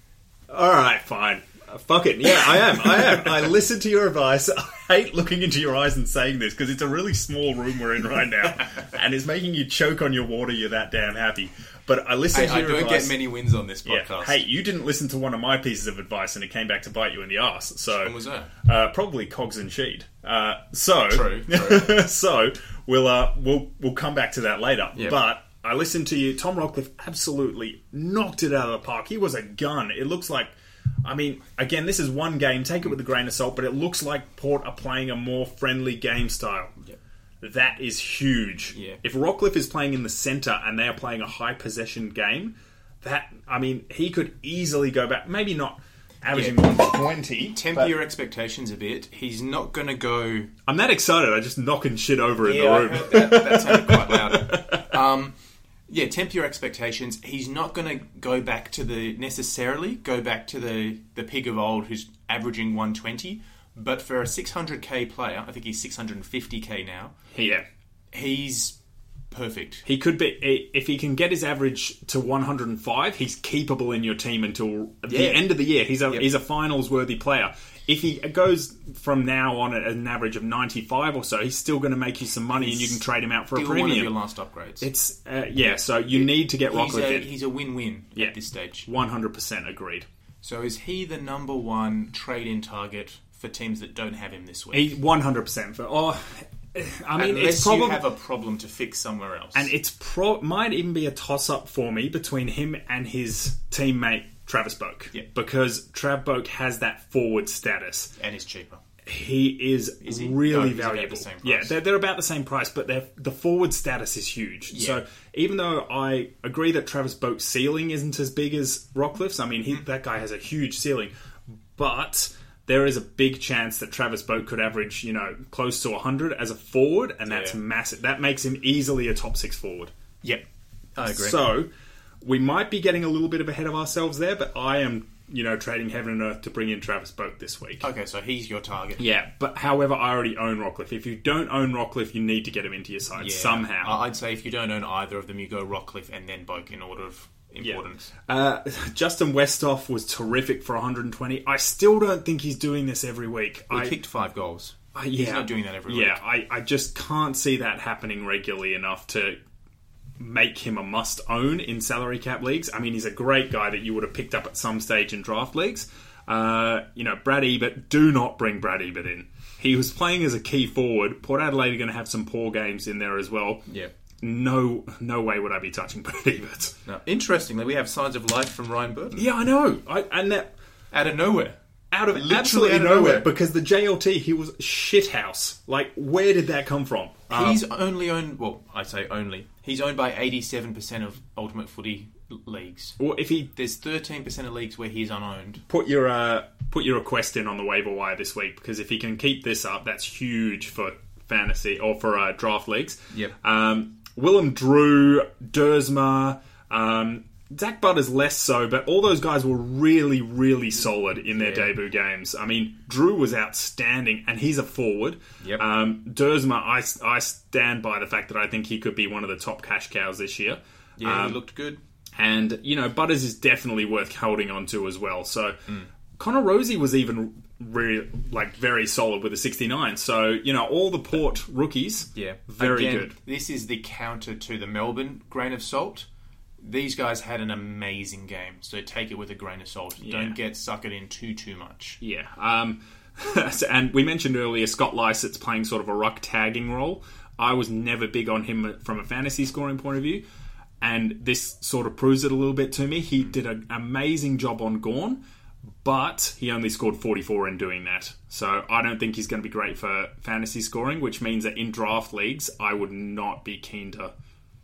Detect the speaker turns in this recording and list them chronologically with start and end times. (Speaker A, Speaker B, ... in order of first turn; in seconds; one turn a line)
Speaker A: 0.5-13.2
Speaker B: 12.3-14.4
Speaker A: 13.9-30.5
Speaker B: 18.0-18.5
Speaker B: 21.1-22.0
Speaker A: 31.0-36.8
Speaker A: 37.4-47.9
Speaker B: 38.7-39.0
Speaker B: 46.3-46.7
Speaker B: 47.5-50.5
Speaker A: 50.7-54.9
Speaker B: 52.4-55.4
Speaker B: 55.9-67.2
Speaker A: 67.3-67.7
Speaker B: 68.1-68.8
Speaker B: 69.3-69.8
Speaker A: 69.8-84.2
Speaker B: 75.1-75.6
Speaker B: 82.5-84.9
Speaker A: 84.8-87.3
Speaker B: 86.1-88.9
Speaker A: 88.9-90.1
Speaker B: 90.4-95.0
Speaker A: 94.7-98.0
Speaker B: 97.2-99.7
Speaker A: 99.5-108.1
Speaker B: 108.2-108.8
Speaker A: 109.0-121.1
Speaker B: 110.0-111.7
Speaker B: 114.7-115.0
Speaker A: 121.8-129.9
Speaker B: 127.3-127.6
Speaker B: 131.0-131.4
Speaker A: 131.1-131.7
Speaker A: 132.2-137.9
Speaker B: 137.8-139.1
Speaker A: 139.0-144.0
Speaker B: 143.2-148.1
Speaker A: 147.6-153.9
Speaker B: 153.7-156.2
Speaker A: 154.9-159.4
Speaker A: 160.2-173.7
Speaker A: 174.2-176.8
Speaker B: 176.9-179.3
Speaker A: 179.1-180.5
Speaker B: 180.9-181.6
Speaker A: 181.9-187.6
Speaker B: 182.1-183.3
Speaker B: 187.3-193.0
Speaker A: 193.0-193.5
Speaker B: 193.5-195.6
Speaker A: 195.7-221.4
Speaker B: 211.3-211.7
Speaker B: 221.0-221.8
Speaker A: 222.2-225.6
Speaker A: 226.2-233.2
Speaker B: 232.2-236.1
Speaker B: 236.6-242.0
Speaker A: 240.0-240.4
Speaker A: 242.0-250.2
Speaker A: 250.8-255.2
Speaker A: 255.8-264.1